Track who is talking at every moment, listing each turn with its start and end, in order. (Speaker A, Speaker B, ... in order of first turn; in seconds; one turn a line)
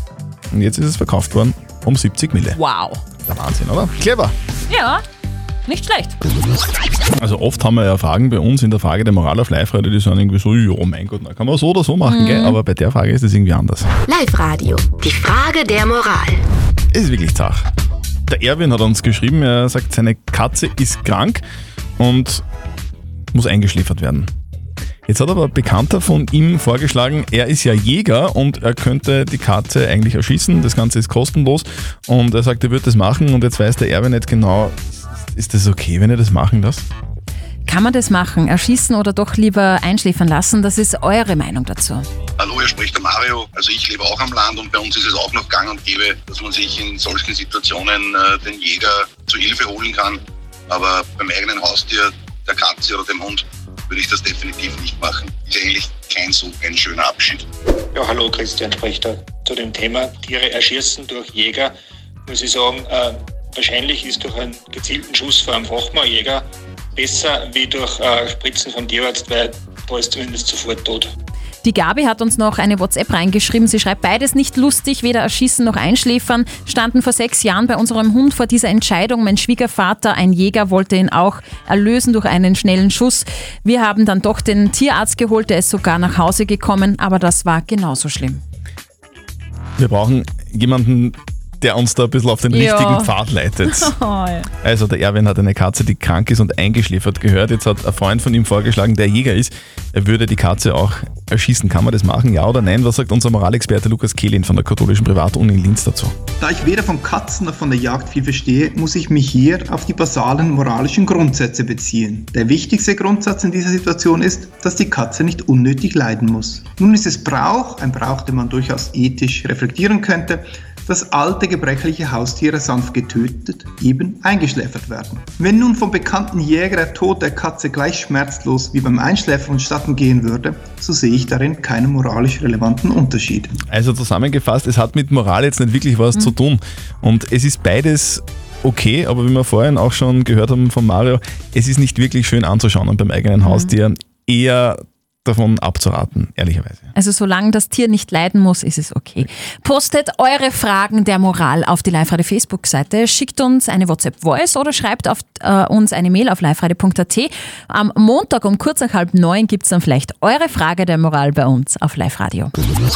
Speaker A: 0.5-2.6
Speaker B: 2.5-3.0
Speaker A: 3.2-4.3
Speaker B: 4.7-5.0
Speaker B: 5.7-6.2
Speaker A: 7.2-13.9
Speaker B: 12.1-12.6
Speaker C: 14.1-16.4
Speaker A: 16.9-17.7
Speaker A: 18.3-21.4
Speaker A: 22.0-22.4
Speaker A: 23.3-24.3
Speaker A: 25.1-36.9
Speaker B: 37.7-42.0
Speaker D: 42.4-57.4
Speaker E: 57.9-61.7
Speaker E: 62.3-71.1
Speaker B: 71.6-88.4
Speaker A: 89.8-93.9
Speaker B: 92.5-93.1
Speaker B: 93.7-94.5
Speaker A: 94.6-106.2
Speaker F: 106.4-133.6
Speaker A: 133.7-146.9
Speaker B: 143.4-143.7
Speaker B: 146.9-162.5